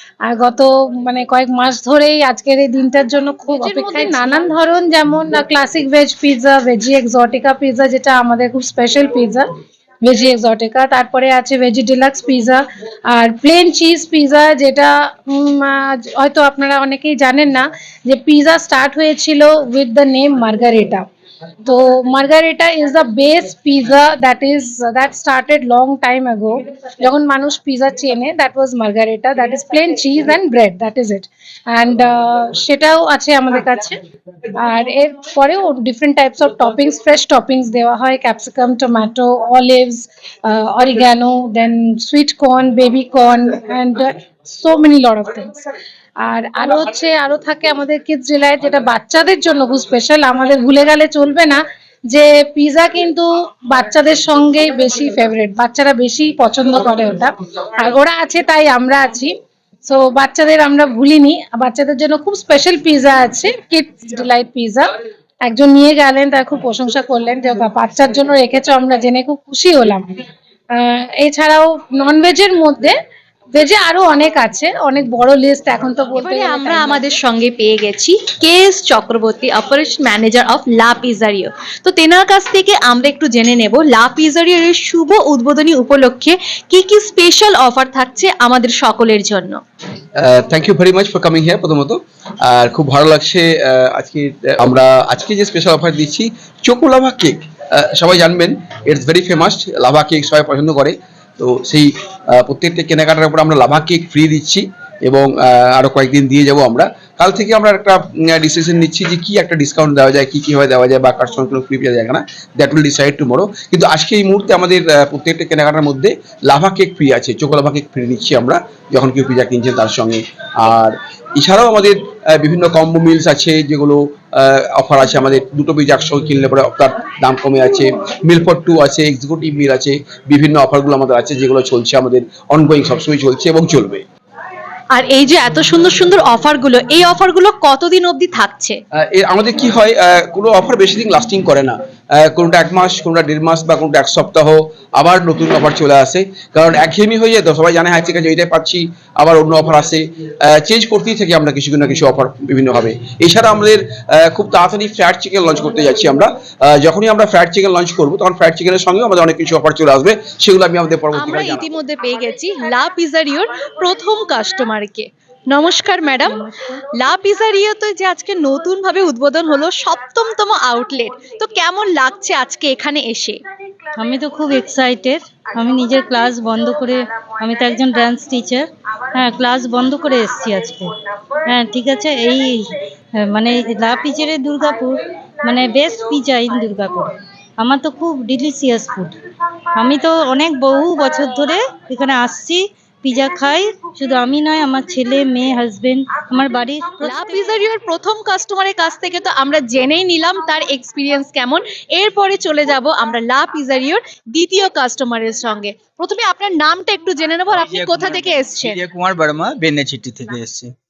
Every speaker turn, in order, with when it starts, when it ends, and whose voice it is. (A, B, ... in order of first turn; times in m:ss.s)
0:00.2-0:09.5 A
0:03.5-0:04.5 B
0:10.0-0:21.1 A
0:21.6-0:34.0 A
0:34.6-0:45.6 A
0:46.2-0:59.3 A
0:59.8-1:04.9 A
1:05.4-1:10.0 A
1:10.7-1:12.9 A
1:13.5-1:17.0 A
1:16.2-1:29.6 B
1:30.2-2:14.0 C
2:14.9-2:18.8 B
2:19.0-2:41.6 C
2:41.2-2:46.4 B
2:47.0-2:53.4 B
2:53.9-3:00.9 D
3:01.4-3:09.2 D
3:09.7-3:17.6 D
3:17.0-3:28.8 B
3:27.5-3:30.7 E